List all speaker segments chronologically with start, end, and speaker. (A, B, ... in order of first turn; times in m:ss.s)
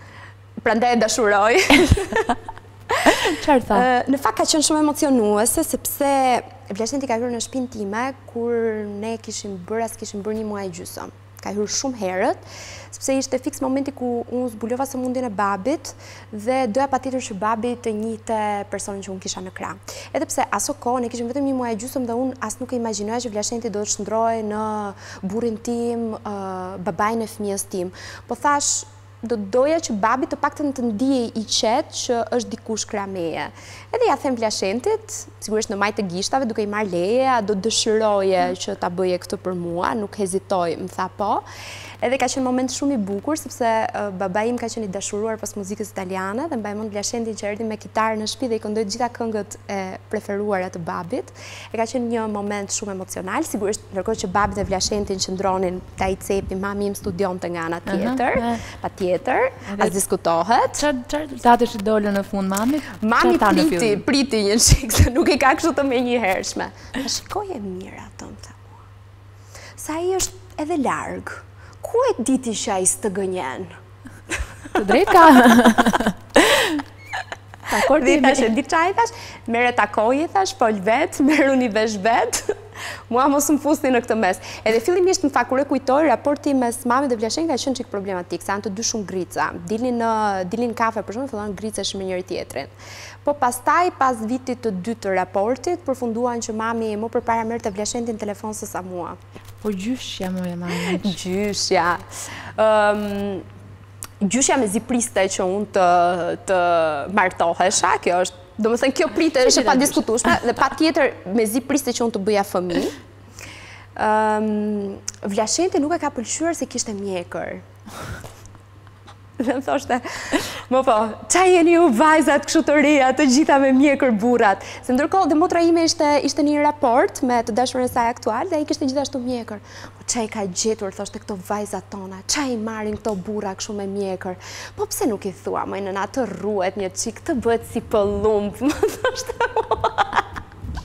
0:00.6-0:02.4 A
0:02.9-0:41.4 A
0:03.0-0:03.8 B
0:42.0-1:00.8 A
0:57.9-0:58.6 B
0:59.7-1:00.0 B
1:00.8-1:04.0 B
1:02.9-1:08.8 A
1:09.8-1:13.7 A
1:14.3-1:15.7 A
1:14.7-1:16.8 B
1:17.7-1:18.5 B
1:17.8-1:22.6 A
1:23.1-1:32.7 A
1:33.2-1:39.2 A
1:39.6-1:41.2 B
1:40.7-1:43.4 A
1:44.2-1:53.0 A
1:49.4-1:50.0 B
1:54.0-1:57.6 A
1:59.4-2:20.2 A